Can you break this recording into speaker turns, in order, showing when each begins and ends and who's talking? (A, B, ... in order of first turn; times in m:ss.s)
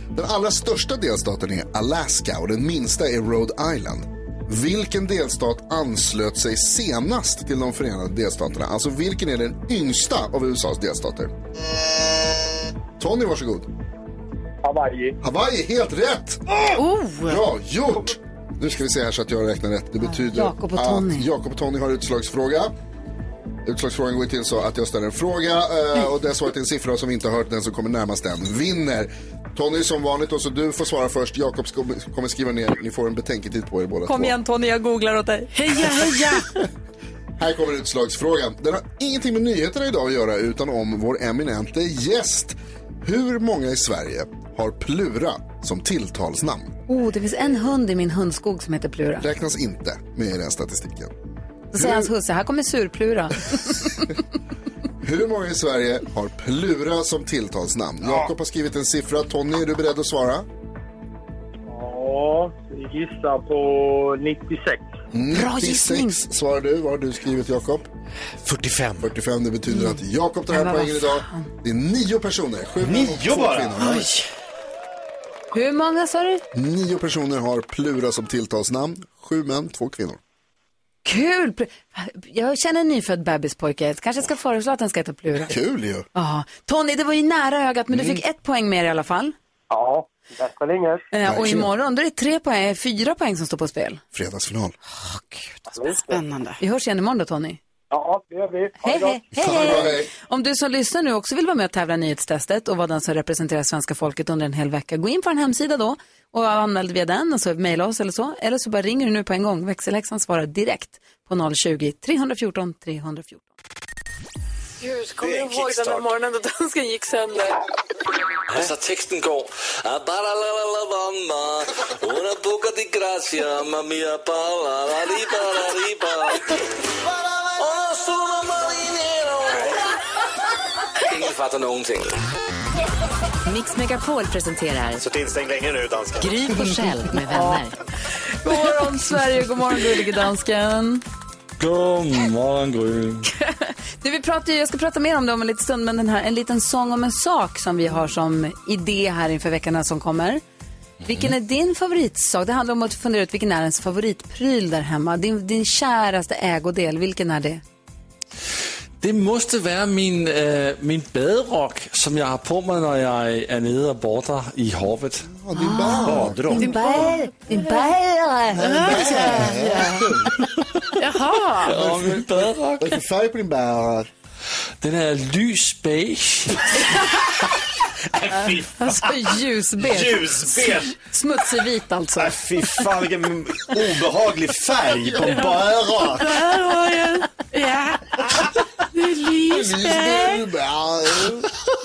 0:00.2-0:11.3 A
0:13.0-0:13.7 A
0:14.6-0:15.2 B
0:15.2-0:16.4 A
0:16.8-0:17.4 C
0:17.3-0:22.7 A
0:20.0-0:21.2 D
0:23.7-0:34.4 A
0:34.1-0:35.6 D
0:35.5-0:36.5 C
0:37.4-0:46.7 A
0:46.9-0:49.3 D
0:49.2-0:51.1 A
0:51.7-0:54.1 D
0:51.8-0:52.1 A
0:55.0-1:00.5 A
1:01.7-1:04.9 B
1:05.1-1:07.9 A
1:05.3-1:06.2 D
1:08.4-1:09.1 E
1:09.0-1:14.1 A
1:09.7-1:11.5 D
1:12.8-1:13.8 E
1:13.8-1:14.3 C
1:15.5-1:16.4 D
1:16.5-1:20.2 A
1:21.0-1:25.6 D
1:25.4-1:26.1 A
1:26.1-1:29.4 D
1:27.9-1:28.2 A
1:29.7-1:31.0 B
1:31.1-1:34.0 D
1:31.2-1:31.7 A
1:34.1-1:34.8 A
1:35.0-1:35.6 D
1:35.7-1:36.2 B
1:36.1-1:36.6 C
1:36.6-1:37.6 D
1:37.9-1:39.9 B
1:38.8-1:53.5 D
1:39.3-1:40.1 A
1:54.8-1:57.6 D
1:55.2-1:56.1 E
1:58.5-2:06.6 F
2:07.5-2:09.8 F
2:11.0-2:12.1 F
2:13.4-2:15.0 G
2:15.0-2:16.3 E
2:16.2-2:17.8 G
2:18.4-2:21.0 D
2:21.6-2:23.3 H
2:23.3-2:30.4 D
2:31.1-2:37.6 D
2:39.0-2:45.3 H
2:45.3-2:48.0 A
2:45.5-2:48.6 D
2:46.0-2:46.8 E
2:46.6-2:47.0 C
2:48.6-2:50.1 C
2:48.6-2:50.5 A
2:51.0-2:51.8 C
2:51.7-2:53.0 H
2:51.7-2:54.1 A
2:54.8-2:56.8 H
2:58.1-3:01.0 E
2:58.5-3:02.8 D
3:02.2-3:06.5 E
3:06.0-3:08.2 C
3:08.9-3:10.5 C
3:09.5-3:11.5 A